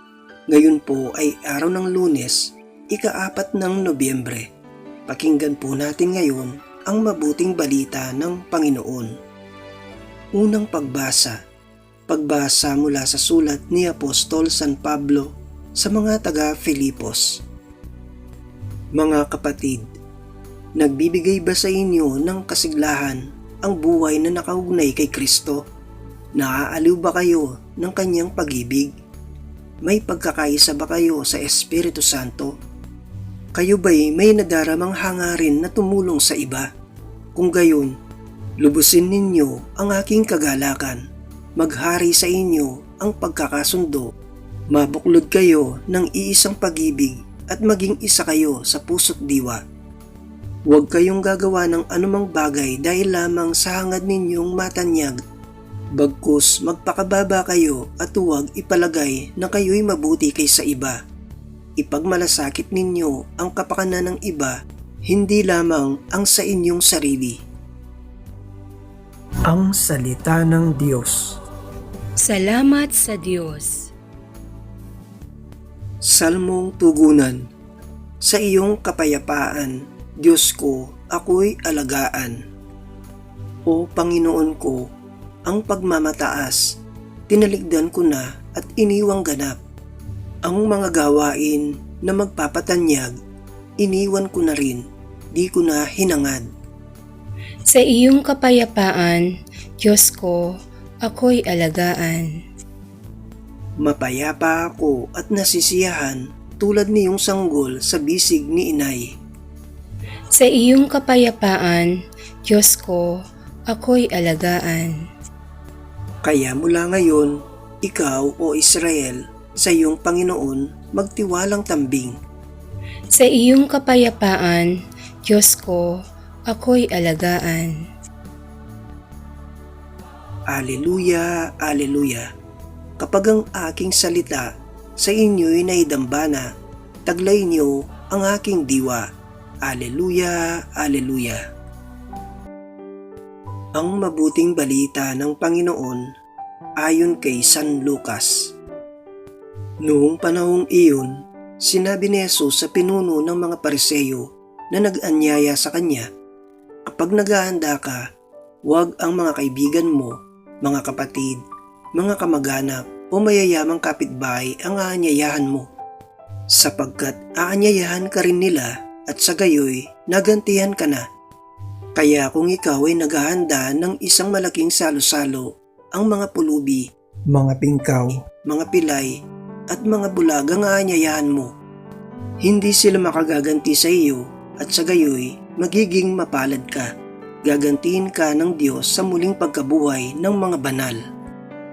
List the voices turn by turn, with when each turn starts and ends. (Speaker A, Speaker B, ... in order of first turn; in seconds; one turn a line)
Speaker A: 0.5-4.5
Speaker A: 5.1-9.1
Speaker A: 10.3-11.4
Speaker A: 12.1-17.4
Speaker A: 18.9-19.9
Speaker A: 20.8-25.6
Speaker A: 26.4-28.9
Speaker A: 29.8-32.5
Speaker A: 33.5-36.7
Speaker A: 37.3-37.9
Speaker A: 38.6-41.0
Speaker A: 41.6-44.1
Speaker A: 44.7-49.6
Speaker A: 50.7-55.2
Speaker A: 56.0-61.0
Speaker A: 61.8-64.5
Speaker A: 65.1-67.4
Speaker A: 69.5-71.3
Speaker B: 72.2-73.9
Speaker A: 76.1-77.4
Speaker A: 78.2-82.4
Speaker A: 83.7-84.9
Speaker A: 85.5-86.6
Speaker A: 87.3-89.6
Speaker A: 90.5-93.1
Speaker A: 93.8-94.8
Speaker A: 95.3-96.5
Speaker B: 97.7-102.4
Speaker A: 103.8-109.1
Speaker B: 110.3-115.0
Speaker A: 116.2-122.1
Speaker B: 123.1-127.8
Speaker A: 130.5-132.3
Speaker A: 133.0-136.5
Speaker A: 137.1-139.1
Speaker A: 139.6-141.4
Speaker A: 143.8-146.0
Speaker A: 146.8-148.5
Speaker A: 149.8-156.1
Speaker A: 156.9-158.0
Speaker A: 158.7-161.4
Speaker A: 161.9-165.7
Speaker A: 166.5-171.0
Speaker A: 171.9-179.1
Speaker A: 179.7-181.5
Speaker A: 182.4-186.9
Speaker A: 187.4-191.0